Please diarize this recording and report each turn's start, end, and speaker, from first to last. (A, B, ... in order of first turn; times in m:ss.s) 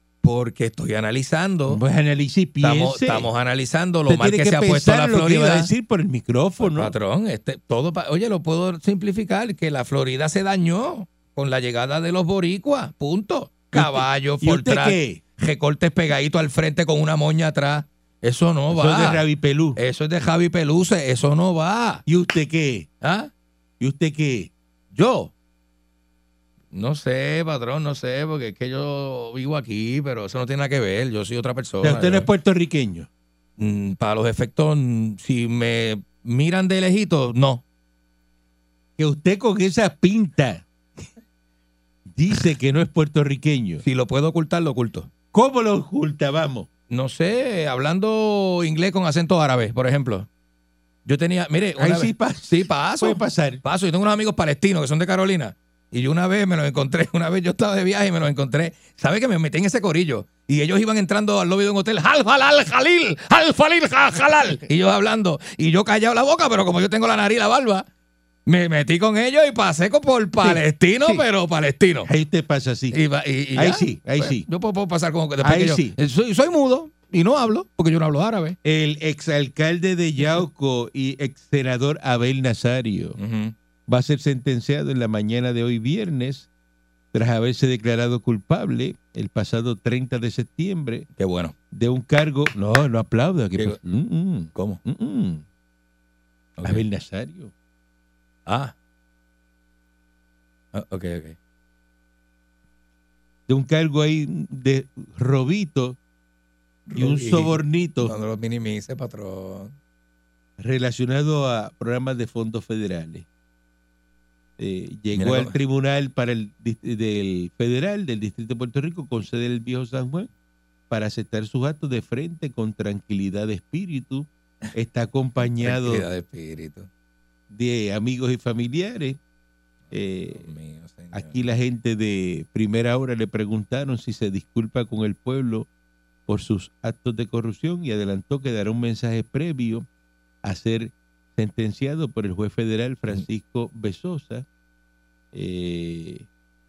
0:00.2-0:01.8 A
0:01.7-0:03.3 B
0:02.6-0:05.7 A
0:04.1-0:06.9 B
0:06.6-0:19.2 A
0:13.7-0:15.2 B
0:18.7-0:19.8 B
0:19.8-0:22.0 A
0:22.1-0:22.9 B
0:23.0-0:23.3 A
0:23.8-0:24.5 B
0:24.9-0:25.3 A
0:26.7-0:32.3 A
0:31.8-0:33.1 B
0:33.6-0:37.6 A
0:39.0-0:40.6 B
0:42.1-0:43.8 B
0:43.8-0:45.1 A
0:45.3-0:46.7 B
0:46.9-0:50.3 A
0:51.1-1:07.9 A
0:51.8-0:53.6 B
1:08.5-1:12.1 A
1:10.4-1:11.2 B
1:12.0-1:13.0 B
1:12.9-1:18.6 A
1:13.6-1:14.4 B
1:15.4-1:15.9 B
1:18.6-1:23.2 B
1:23.2-1:23.5 A
1:23.9-1:26.5 B
1:27.1-1:31.1 B
1:31.2-1:31.6 A
1:31.7-1:35.4 B
1:34.6-1:34.8 A
1:36.6-1:36.8 A
1:36.6-1:37.5 B
1:38.5-1:38.7 A
1:40.7-1:41.4 A
1:43.5-1:46.0 B
1:46.9-1:49.8 A
1:47.0-1:48.1 B
1:50.6-1:53.3 B
1:54.6-2:00.3 B
1:55.1-1:55.6 A
2:00.9-2:06.0 B
2:05.6-2:06.9 A
2:07.5-2:09.2 B
2:09.9-2:11.4 A
2:09.9-2:10.5 B
2:11.1-2:15.7 B
2:16.3-2:19.9 B
2:20.4-2:24.5 B
2:25.3-2:26.3 B